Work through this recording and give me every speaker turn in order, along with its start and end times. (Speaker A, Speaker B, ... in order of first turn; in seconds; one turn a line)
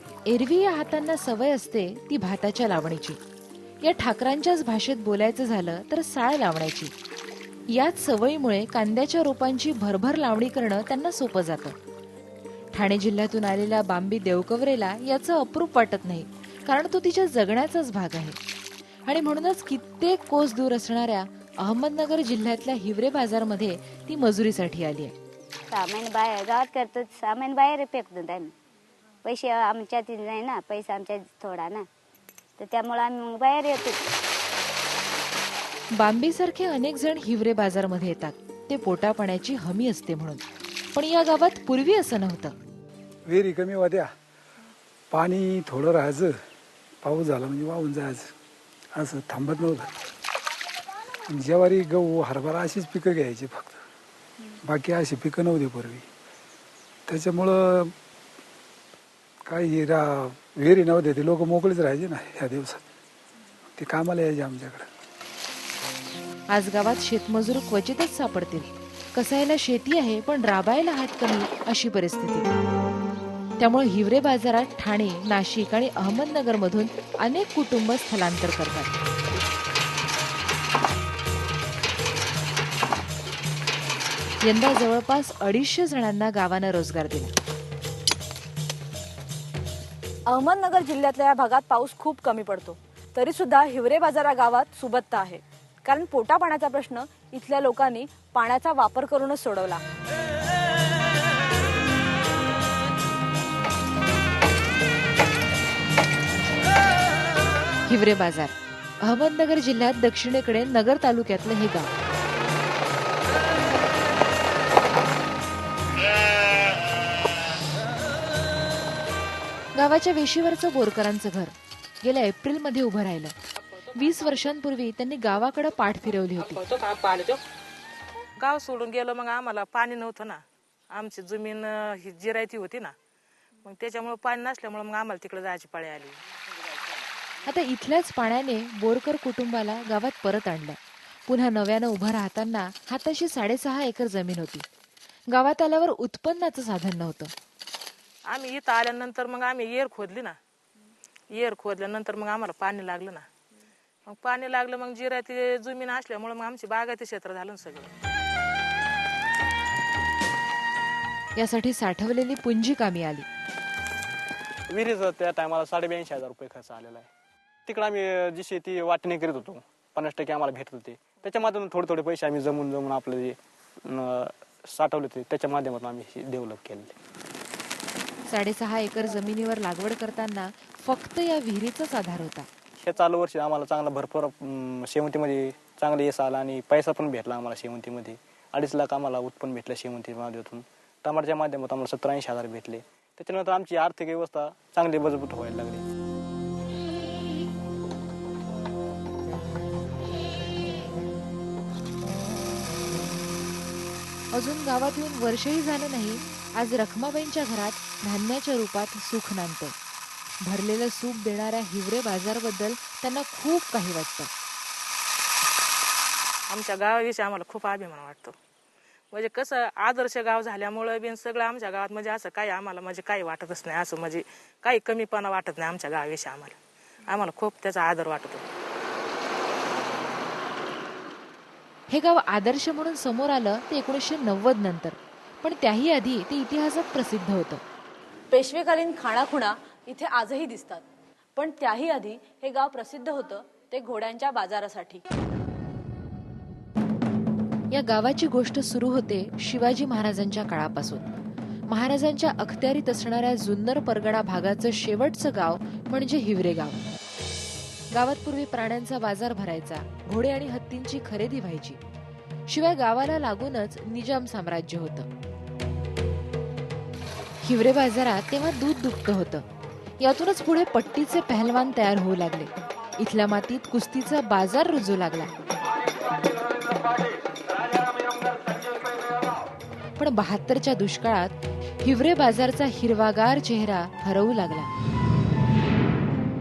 Speaker A: 0.3-3.2
Speaker A: 3.8-6.9
Speaker A: 7.7-11.8
Speaker A: 12.7-18.4
Speaker A: 19.1-25.1
Speaker B: 25.7-28.5
Speaker B: 29.2-31.9
Speaker B: 32.6-34.0
Speaker A: 36.0-40.4
Speaker A: 41.0-42.5
Speaker C: 43.3-44.1
Speaker C: 45.1-46.4
Speaker C: 47.0-48.3
Speaker C: 49.0-49.9
Speaker C: 51.3-53.8
Speaker C: 54.6-56.0
Speaker C: 57.1-57.9
Speaker C: 59.5-62.8
Speaker C: 63.8-64.9
Speaker A: 66.5-72.5
Speaker A: 73.6-79.0
Speaker A: 84.4-87.3
Speaker D: 90.3-99.8
Speaker A: 107.9-111.9
Speaker A: 119.8-123.3
Speaker A: 123.9-126.6
Speaker E: 126.4-127.4
Speaker E: 128.4-132.9
Speaker E: 133.7-136.2
Speaker A: 137.4-144.7
Speaker A: 145.3-147.3
Speaker E: 148.3-150.3
Speaker E: 151.3-153.2
Speaker E: 154.1-157.9
Speaker A: 161.4-163.2
Speaker F: 164.7-167.1
Speaker F: 167.7-176.9
Speaker A: 178.3-182.5
Speaker F: 182.8-195.8
Speaker A: 204.3-209.7
Speaker A: 210.4-214.3
Speaker E: 216.5-218.3
Speaker E: 219.1-226.6
Speaker E: 227.1-228.4
Speaker A: 231.9-237.6
Speaker D: 238.3-240.8
Speaker D: 241.3-245.0
Speaker A: 247.7-251.0
Speaker A: 251.7-256.8
Speaker A: 257.9-261.8
Speaker A: 262.5-265.1
Speaker A: 267.4-269.4
Speaker A: 270.0-275.3
Speaker A: 280.0-284.7